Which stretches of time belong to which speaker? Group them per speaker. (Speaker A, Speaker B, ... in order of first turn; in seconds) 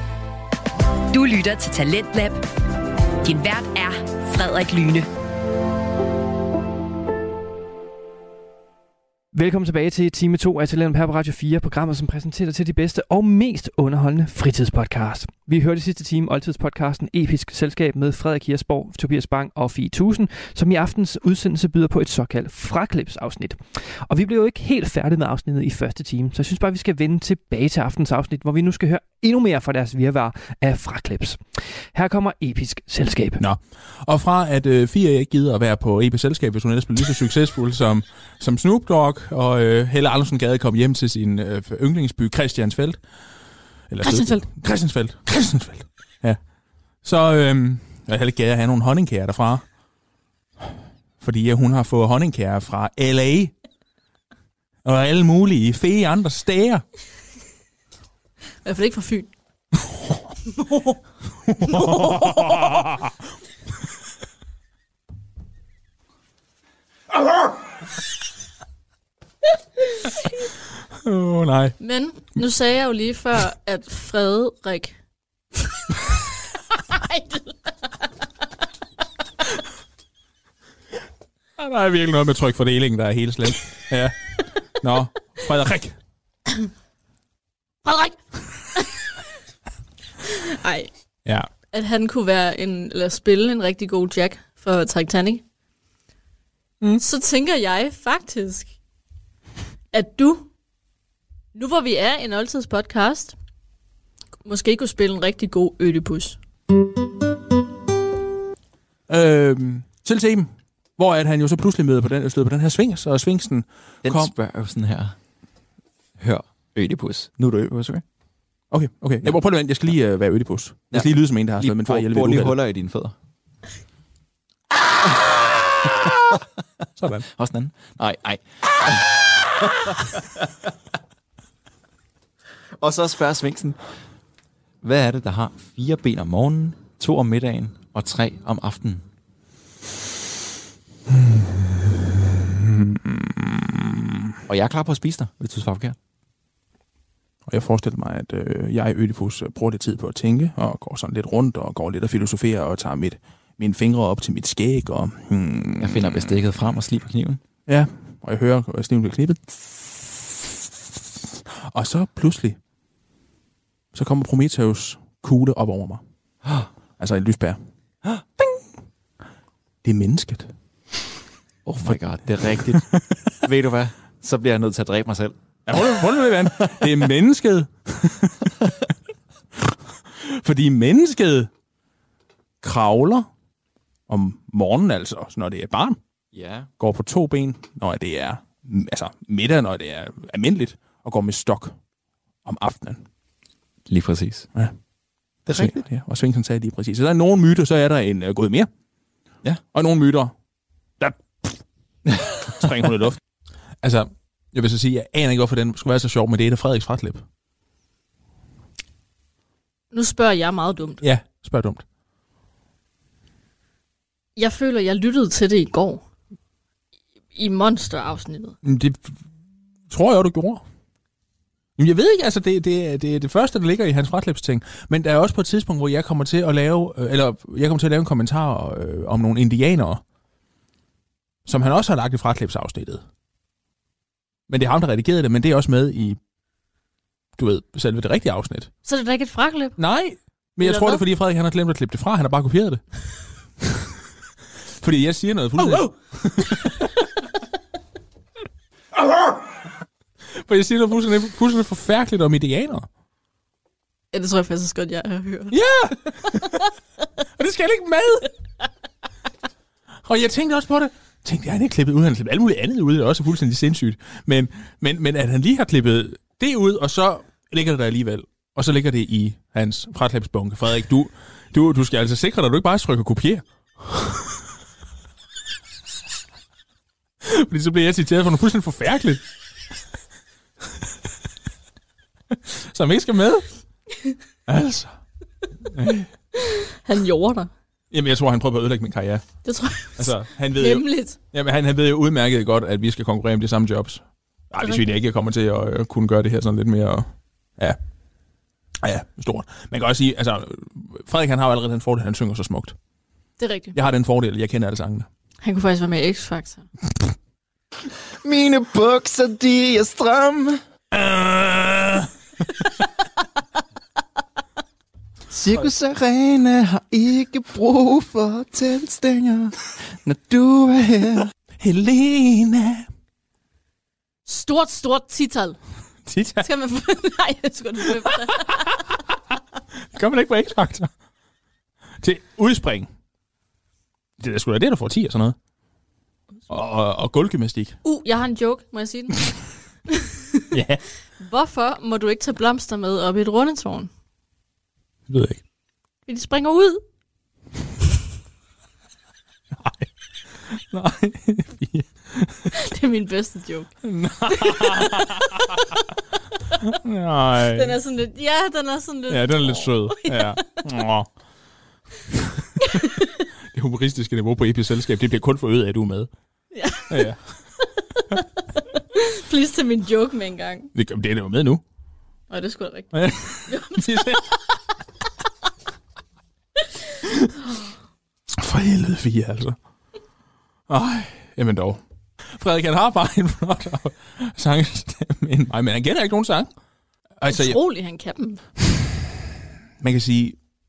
Speaker A: 1.1-2.4, 3.2-5.1
Speaker B: 9.3-31.4, 31.9-33.4
Speaker C: 33.4-43.0, 43.9-46.4, 47.0-49.6, 51.2-53.5, 54.8-56.8, 61.5-63.1, 71.0-71.8, 81.6-86.0, 109.1-114.3, 118.7-122.6, 127.0-127.3, 141.2-144.3, 147.5-156.3, 157.7-160.3, 161.7-162.6, 163.9-166.0, 167.0-167.6, 169.8-170.5, 172.6-172.9, 175.7-178.4, 179.6-181.5, 182.6-183.3, 184.1-186.0, 186.8-191.8, 192.4-193.0, 195.5-198.7, 199.7-200.3, 201.0-201.6, 202.5-203.2, 203.8-207.2, 211.0-211.8, 218.6-219.1, 219.9-220.6, 221.8-230.0, 231.5-233.0, 234.5-236.2, 237.4-238.7, 239.8-242.8, 244.8-246.9, 250.4-252.9, 255.5-256.6, 257.4-258.3, 260.1-274.2, 277.2-279.2, 282.3-283.5, 284.5-284.9, 285.7-286.1, 287.9-289.4, 290.0-297.8, 298.8-302.8, 303.7-305.1, 310.9-312.1, 321.6-322.9, 326.1-326.5, 329.9-330.9, 332.0-332.9, 334.2-335.4, 336.5-337.8, 340.5-340.8, 345.1-345.4, 349.6-349.9, 350.5-352.5, 353.8-355.6, 356.6-357.8, 359.1-361.1, 363.5-366.1, 366.9-367.2, 370.8-371.6, 372.9-374.3, 378.4-379.6, 380.7-381.8, 382.3-386.5, 387.2-387.6, 389.8-390.4
Speaker D: 44.0-44.4, 58.6-59.3, 60.6-61.0, 61.6-62.9, 71.8-75.0, 76.9-77.6, 87.8-88.2, 90.3-90.9, 91.7-95.4, 97.0-98.7, 99.9-100.5, 101.5-103.3, 104.4-106.4, 209.9-211.0, 214.4-216.0, 217.3-218.6, 238.8-239.8, 240.6-241.0, 254.1-255.6, 256.2-256.5, 286.4-287.5, 289.4-291.2, 294.6-294.8, 303.4-303.7, 305.4-306.7, 324.3-325.6, 326.4-328.7, 337.8-339.3, 339.9-340.4, 341.2-343.9, 346.1-346.8, 352.5-353.7, 354.3-355.6, 357.5-360.4, 362.6-363.1, 366.5-367.1, 368.9-370.7, 372.3-372.9, 373.5-374.1, 387.3-388.4
Speaker E: 114.0-115.2, 116.2-118.0, 120.9-123.1, 127.3-130.5, 132.8-133.8, 134.8-139.0, 144.5-146.0, 155.8-157.4, 171.7-172.8, 173.4-175.8, 176.6-176.9, 186.3-186.7, 193.9-194.5, 195.5-195.8, 308.2-310.6, 315.3-321.3